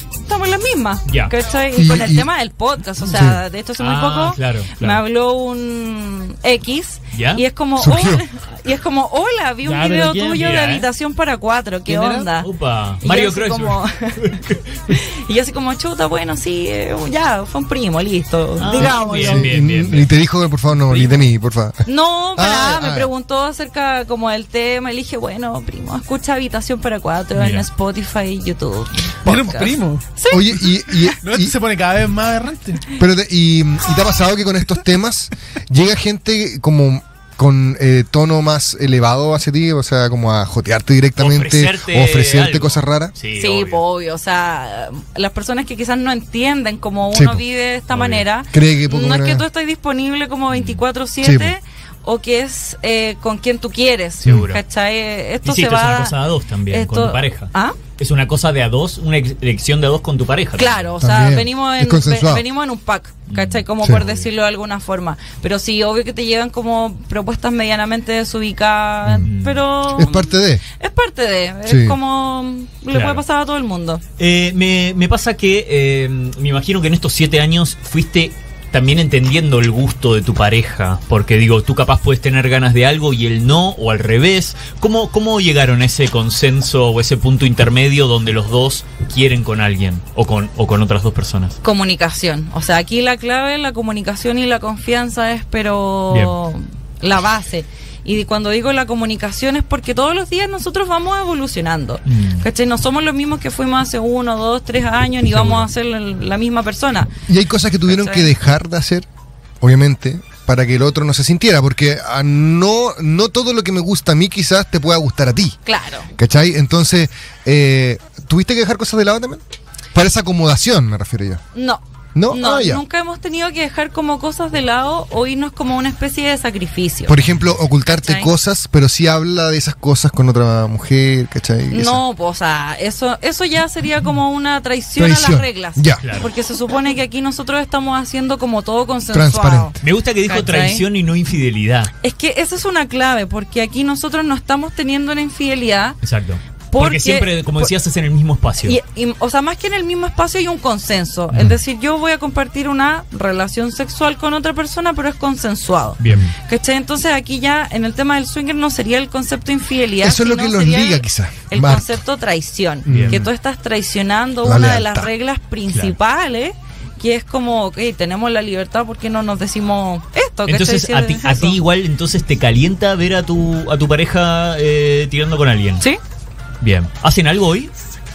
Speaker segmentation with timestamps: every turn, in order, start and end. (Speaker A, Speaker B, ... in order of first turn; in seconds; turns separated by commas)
Speaker A: 0.2-12.5, Speaker B: 1.1-1.3, Speaker C: 1.7-2.3, Speaker C: 3.0-3.4, Speaker B: 3.8-5.0, Speaker B: 7.1-7.4, Speaker C: 7.8-8.2, Speaker D: 9.6-10.4, Speaker B: 10.3-10.9, Speaker D: 11.9-12.3, Speaker B: 12.4-14.6, Speaker A: 13.0-19.5, Speaker B: 18.6-20.1, Speaker C: 18.8-23.1, Speaker A: 21.9-31.0, Speaker B: 27.4-27.6, Speaker D: 29.2-30.0, Speaker C: 30.3-31.5, Speaker D: 31.2-32.9, Speaker C: 33.0-43.1, Speaker B: 41.2-43.8, Speaker A: 43.4-56.1, Speaker C: 47.1-47.4, Speaker B: 47.9-48.2, Speaker C: 48.5-49.4, Speaker B: 50.5-50.8, Speaker C: 51.2-51.5, Speaker B: 54.2-54.6, Speaker B: 55.4-60.9, Speaker A: 56.7-57.8, Speaker A: 60.6-74.0, Speaker C: 61.0-62.4, Speaker B: 63.3-64.2, Speaker B: 69.2-69.6, Speaker C: 69.9-70.6, Speaker C: 71.7-72.0, Speaker B: 72.9-73.2, Speaker B: 74.2-91.6, Speaker A: 91.6-107.1, Speaker B: 102.0-102.4, Speaker B: 105.3-105.7, Speaker C: 107.3-109.0, Speaker A: 107.9-108.3, Speaker C: 109.6-115.6, Speaker A: 115.7-116.1, Speaker C: 116.1-119.4, Speaker C: 119.9-121.4, Speaker A: 121.5-127.2, Speaker C: 122.1-122.8, Speaker C: 127.1-132.0, Speaker A: 127.9-128.3, Speaker A: 131.7-140.8, Speaker C: 135.0-136.0, Speaker B: 136.0-136.3, Speaker C: 139.1-139.8, Speaker B: 139.8-141.9, Speaker A: 142.0-146.0, Speaker B: 146.0-148.8, Speaker A: 146.7-147.7, Speaker A: 148.6-171.6, Speaker B: 156.0-156.3, Speaker C: 160.0-161.9, Speaker C: 162.8-163.3, Speaker B: 162.9-163.2, Speaker C: 164.4-165.1, Speaker B: 170.5-175.8, Speaker B: 176.6-177.7